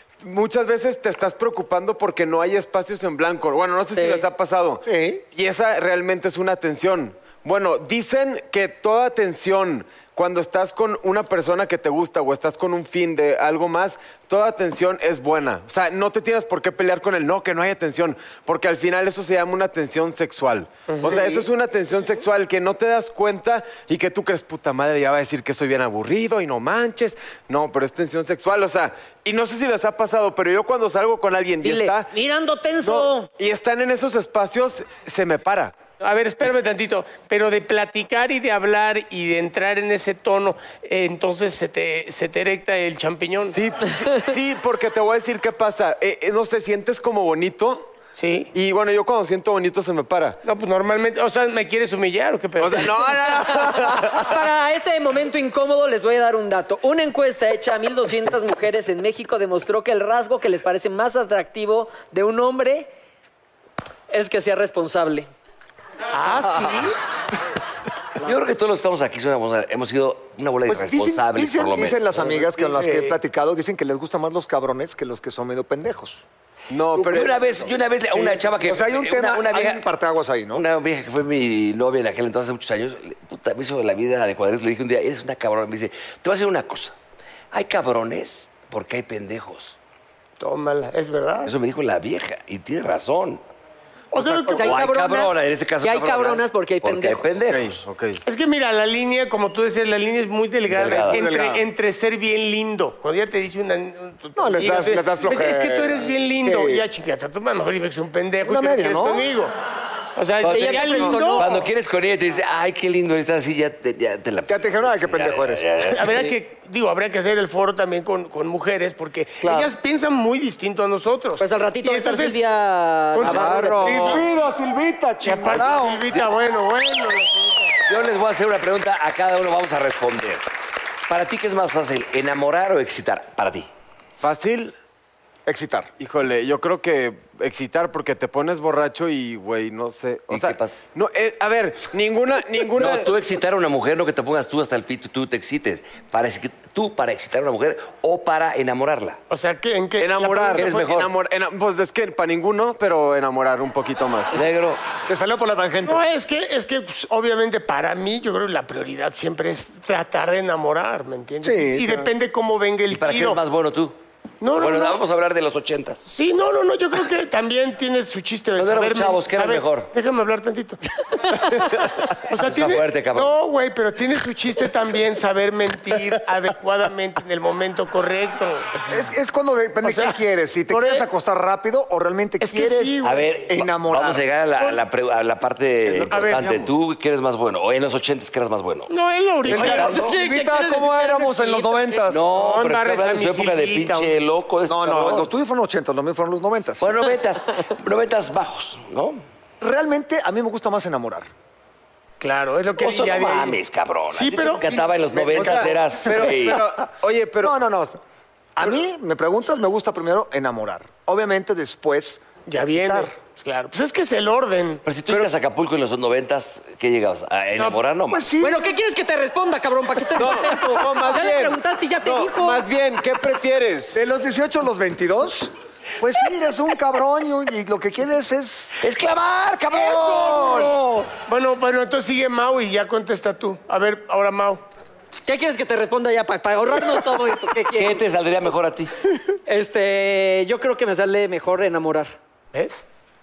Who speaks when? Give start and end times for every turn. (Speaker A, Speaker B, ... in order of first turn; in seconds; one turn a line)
Speaker A: 0.2-32.1
Speaker B: 3.9-4.2
Speaker C: 4.8-5.2
Speaker D: 20.9-21.4
Speaker B: 31.6-33.3
Speaker A: 32.8-35.7
Speaker D: 36.0-44.0
Speaker A: 43.5-47.9
Speaker D: 48.1-48.5
Speaker A: 48.5-50.4
Speaker D: 50.4-53.6
Speaker A: 52.6-54.3
Speaker B: 53.9-62.9
Speaker B: 64.1-65.3
Speaker D: 66.1-67.0
Speaker B: 66.4-66.9
Speaker E: 68.2-73.1
Speaker C: 70.7-76.2
Speaker A: 76.7-77.5
Speaker E: 77.0-79.8
Speaker C: 78.1-80.6
Speaker E: 80.5-86.9
Speaker E: 87.5-89.8
Speaker D: 90.4-91.5
Speaker E: 91.4-93.4
Speaker D: 94.1-94.8
Speaker A: 94.2-94.5
Speaker B: 94.4-97.3
Speaker E: 94.5-97.8
Speaker A: 97.5-98.2
Speaker D: 98.2-109.5
Speaker C: 100.7-101.7
Speaker E: 100.7-101.2
Speaker C: 104.3-106.8
Speaker C: 108.4-109.3
Speaker D: 110.2-111.5
Speaker E: 110.4-116.2
Speaker B: 110.4-111.7
Speaker C: 114.5-116.2
Speaker D: 115.9-122.4
Speaker C: 119.4-119.7
Speaker B: 121.4-124.2
Speaker D: 123.2-124.2
Speaker A: 123.2-124.2
Speaker C: 123.8-126.2
Speaker D: 125.2-127.7
Speaker E: 127.8-130.4
Speaker E: 131.1-133.7
Speaker A: 134.2-134.7
Speaker C: 135.4-135.9
Speaker A: 136.0-143.1
Speaker E: 140.3-140.7
Speaker E: 142.8-149.2
Speaker D: 149.3-150.9
Speaker A: 150.0-154.3
Speaker E: 150.5-151.1
Speaker E: 154.3-154.8
Speaker C: 155.1-156.0
Speaker D: 155.8-163.4
Speaker C: 161.4-162.1
Speaker E: 162.9-163.9
Speaker D: 164.4-165.0
Speaker E: 164.5-166.1
Speaker D: 166.1-170.8
Speaker E: 168.6-169.9
Speaker D: 172.2-178.8
Speaker E: 172.4-173.3
Speaker C: 178.9-184.2
Speaker D: 179.8-180.2
Speaker D: 180.7-181.0
Speaker D: 182.4-183.5
Speaker E: 183.0-188.9
Speaker D: 185.9-186.7
Speaker D: 188.9-190.1
Speaker E: 189.4-190.1
Speaker C: 189.5-192.3
Speaker B: 189.6-192.0
Speaker E: 192.1-195.3
Speaker D: 192.3-194.2
Speaker C: 194.7-196.9
Speaker E: 196.8-199.2
Speaker C: 199.6-201.3
Speaker D: 202.2-203.6
Speaker E: 202.8-206.6
Speaker D: 204.1-204.8
Speaker C: 204.7-206.6
Speaker A: 205.3-207.5
Speaker C: 207.4-208.0
Speaker C: 208.6-213.1
Speaker D: 212.5-214.8
Speaker E: 214.8-218.3
Speaker C: 218.1-218.7
Speaker B: 218.4-222.7
Speaker A: 220.1-224.0
Speaker C: 223.9-228.7
Speaker E: 228.8-230.8
Speaker C: 230.1-231.0
Speaker D: 231.2-234.6
Speaker B: 235.2-238.0
Speaker E: 237.7-238.9
Speaker B: 239.5-242.2
Speaker D: 242.5-242.8